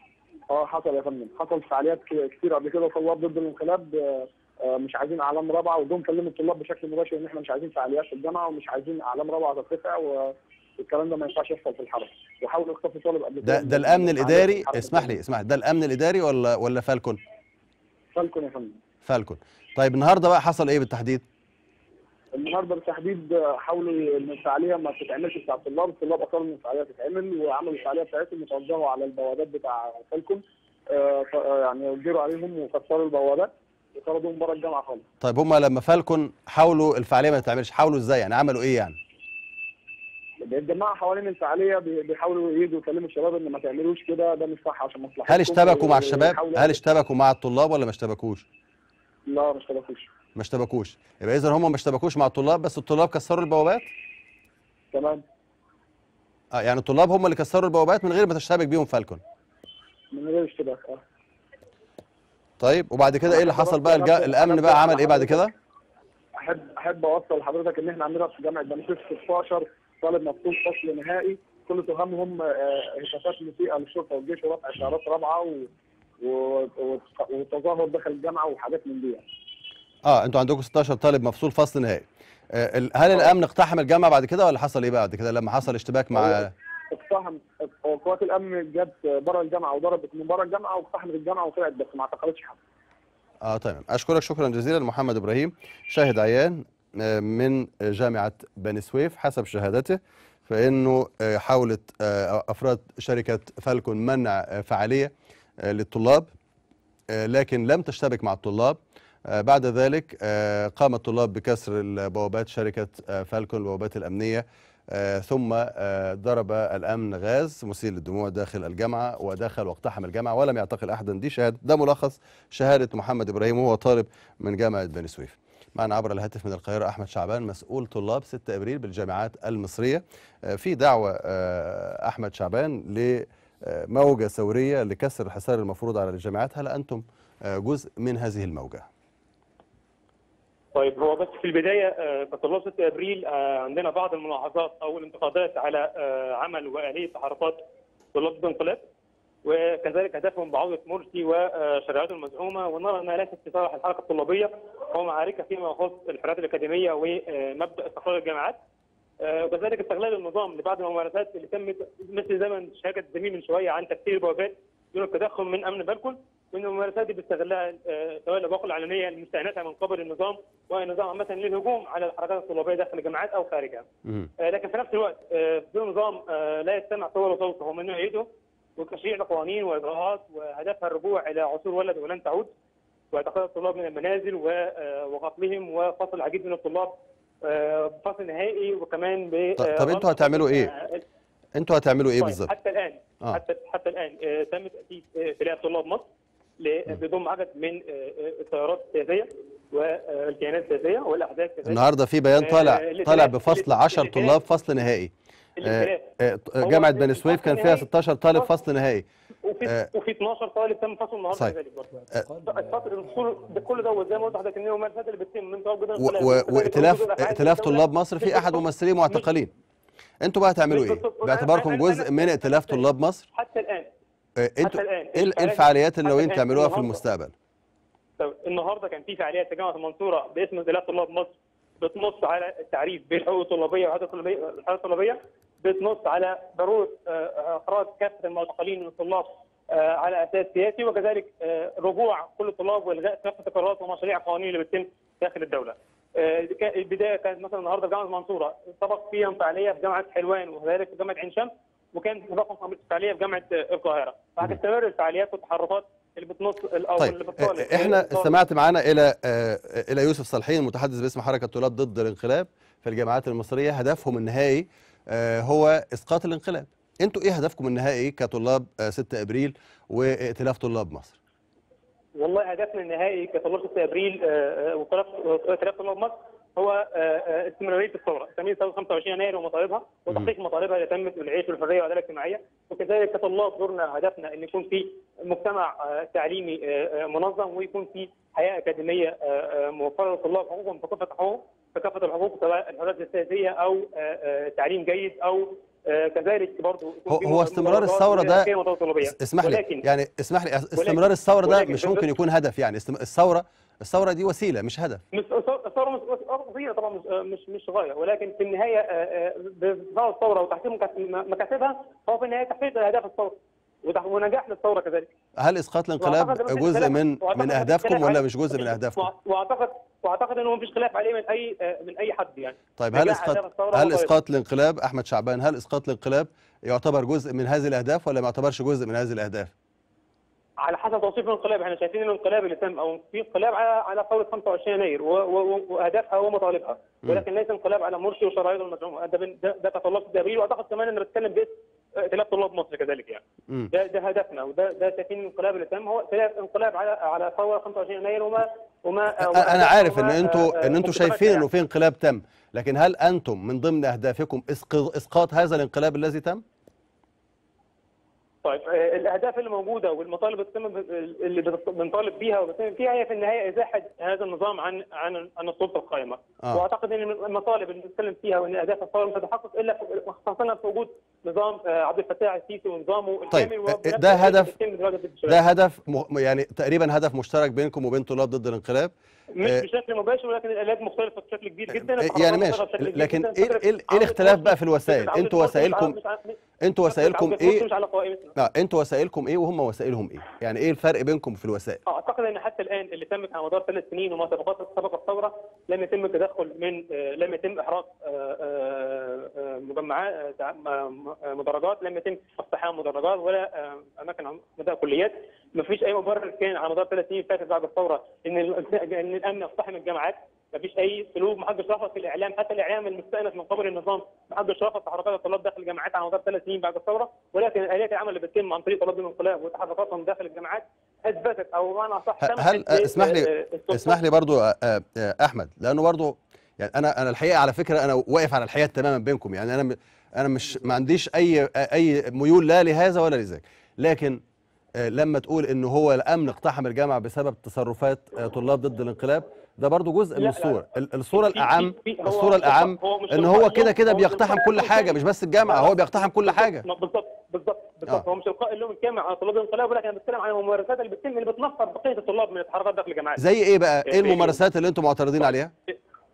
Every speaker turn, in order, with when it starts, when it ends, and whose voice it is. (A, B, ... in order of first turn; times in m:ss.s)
0:00.5-0:15.2 A
0:13.4-0:17.2 B
0:18.1-0:18.8 A
0:19.0-0:21.2 B
0:22.3-0:35.0 A
0:35.2-0:39.0 B
0:40.4-0:46.8 A
0:45.3-0:48.4 B
0:49.3-0:50.1 A
0:50.4-0:53.9 B
0:54.9-0:55.2 A
0:56.5-0:59.2 B
1:00.1-1:01.0 A
1:02.6-1:05.5 B
1:03.3-1:05.4 A
1:06.4-1:15.7 A
1:16.2-1:19.2 A
1:20.0-1:26.5 B
1:26.2-1:32.6 A
1:33.4-1:46.3 B
1:47.1-2:18.9 B
2:20.7-2:27.6 C
2:28.1-2:28.8 C
2:29.4-2:38.6 C
2:39.2-2:53.9 C
2:54.4-3:02.5 C
3:03.1-3:11.0 C
3:09.6-3:10.7 B
3:11.6-3:12.5 B
3:12.2-3:16.1 C
3:16.6-3:21.8 C
3:21.6-3:29.1 B
3:22.3-3:24.4 C
3:25.6-3:26.1 C
3:26.6-3:28.5 C
3:29.4-3:39.3 C
3:36.0-3:39.5 B
3:40.2-3:43.3 B
3:40.7-3:42.8 C
3:43.3-3:43.9 C
3:44.4-3:47.3 B
3:44.6-3:47.0 C
3:48.2-4:18.3 C
4:17.0-4:31.2 B
4:32.2-4:59.9 C
4:57.1-4:58.5 B
4:59.0-5:05.0 B
5:00.8-5:02.1 C
5:05.1-5:15.1 C
5:15.4-5:19.1 B
5:16.0-5:24.1 C
5:22.8-5:29.5 B
5:30.6-5:51.4 C
5:49.2-5:56.4 B
5:58.4-6:15.4 C
6:13.3-6:14.5 B
6:15.3-6:19.7 B
6:19.3-6:28.3 C
6:21.7-6:26.0 B
6:26.6-6:27.7 B
6:28.4-6:31.8 B
6:31.9-7:04.0 C
7:02.2-7:14.2 B
7:14.8-7:26.7 B
7:20.2-7:33.2 C
7:33.2-7:35.5 B
7:33.9-7:34.4 C